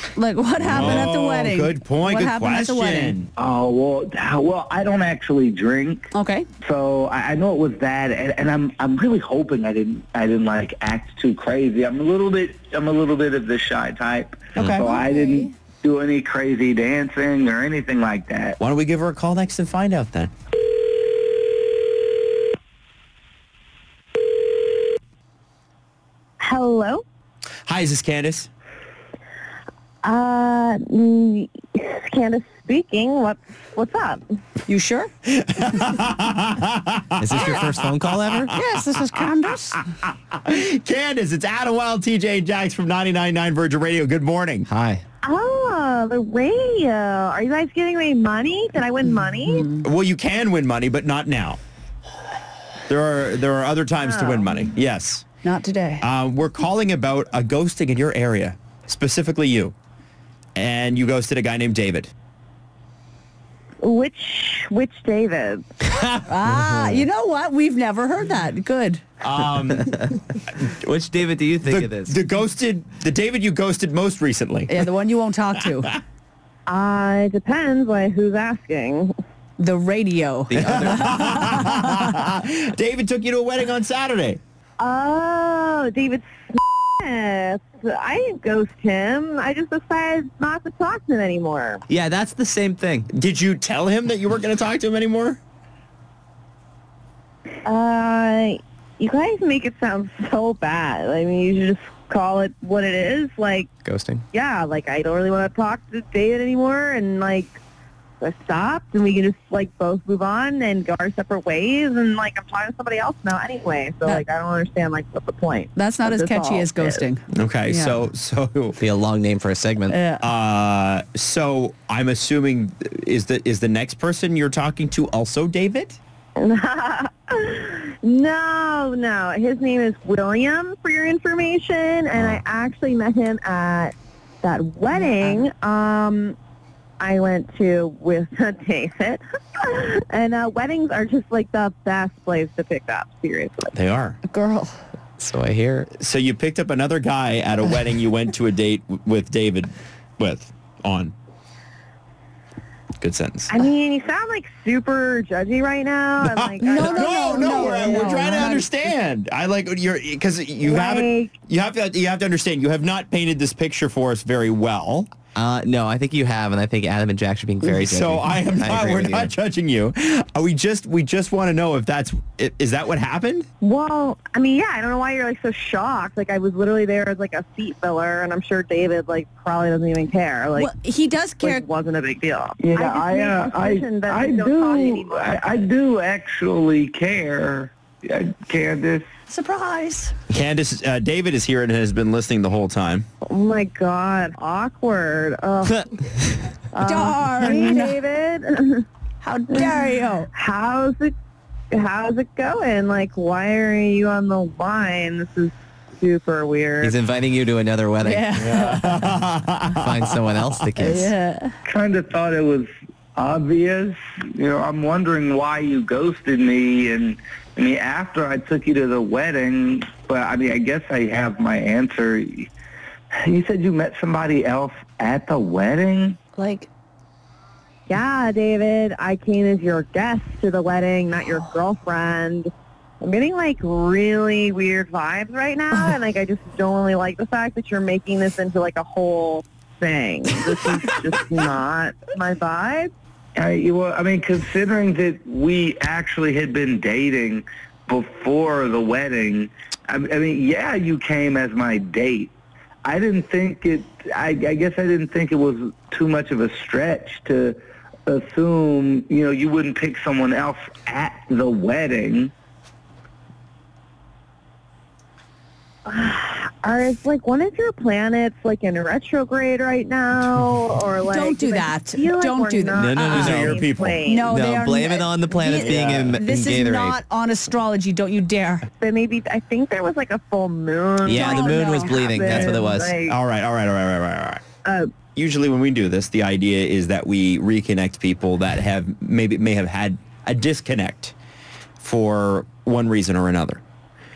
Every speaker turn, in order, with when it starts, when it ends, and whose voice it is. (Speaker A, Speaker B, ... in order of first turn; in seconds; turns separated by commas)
Speaker A: 0.1-3.2, Speaker B: 0.6-3.3, Speaker C: 3.4-6.1, Speaker A: 6.1-6.5, Speaker C: 6.6-18.6, Speaker B: 14.6-14.9, Speaker A: 14.6-15.5, Speaker B: 18.6-20.3, Speaker D: 26.4-27.0, Speaker B: 27.6-28.5, Speaker D: 30.0-34.2, Speaker A: 34.7-35.1, Speaker B: 35.2-44.7, Speaker E: 37.2-38.5, Speaker A: 38.5-39.8, Speaker E: 44.7-45.0, Speaker D: 45.2-49.7, Speaker A: 49.5-49.8, Speaker B: 49.8-51.6, Speaker B: 52.9-55.2, Speaker D: 54.0-54.7, Speaker A: 55.4-56.0, Speaker B: 56.0-59.7, Speaker B: 60.5-62.1, Speaker D: 63.8-65.6, Speaker A: 66.2-69.0, Speaker B: 69.2-70.1, Speaker E: 70.7-72.1, Speaker B: 71.6-74.7, Speaker A: 74.7-75.9, Speaker D: 76.7-79.1, Speaker A: 79.6-82.1, Speaker E: 80.5-81.4, Speaker B: 80.6-84.4, Speaker D: 84.8-91.8, Speaker E: 91.9-93.1, Speaker B: 93.1-95.4, Speaker D: 97.6-103.7, Speaker E: 103.8-104.2, Speaker D: 104.3-107.6, Speaker D: 108.2-117.0, Speaker A: 115.7-118.0, Speaker B: 117.3-118.8, Speaker E: 118.8-120.0, Speaker A: 119.9-120.2, Speaker B: 120.2-126.0, Speaker D: 126.4-136.4, Speaker B: 132.1-132.4, Speaker D: 137.0-143.7, Speaker B: 143.7-144.2, Speaker A: 144.2-144.8, Speaker E: 145.2-145.9, Speaker B: 145.9-151.1, Speaker B: 153.0-153.5, Speaker D: 153.5-158.6, Speaker B: 156.2-165.1, Speaker A: 156.7-158.7, Speaker D: 160.6-161.3, Speaker E: 165.3-169.3, Speaker B: 167.6-173.5, Speaker D: 173.6-180.7, Speaker A: 180.6-181.6, Speaker D: 181.4-185.6, Speaker C: 182.6-189.1, Speaker A: 189.3-190.1, Speaker B: 190.3-193.0, Speaker D: 193.3-195.9, Speaker D: 196.7-198.8, Speaker A: 196.8-198.0, Speaker A: 199.2-200.3, Speaker D: 200.3-201.1, Speaker D: 201.7-206.9, Speaker E: 206.8-208.4, Speaker A: 208.0-209.1, Speaker B: 208.4-210.2, Speaker E: 209.7-211.1, Speaker A: 210.8-211.5, Speaker C: 211.6-222.5, Speaker C: 223.1-226.2, Speaker A: 226.3-226.7, Speaker D: 227.9-242.9, Speaker C: 243.3-252.3, Speaker C: 252.8-262.3, Speaker D: 265.9-274.3, Speaker A: 271.1-273.3, Speaker E: 272.8-273.6, Speaker B: 272.9-274.0, Speaker A: 274.0-278.7, Speaker E: 274.3-277.0, Speaker D: 278.8-283.1, Speaker E: 281.0-283.0, Speaker A: 281.1-281.8, Speaker B: 282.2-284.4, Speaker D: 284.6-284.9, Speaker B: 285.1-291.1, Speaker B: 291.8-293.6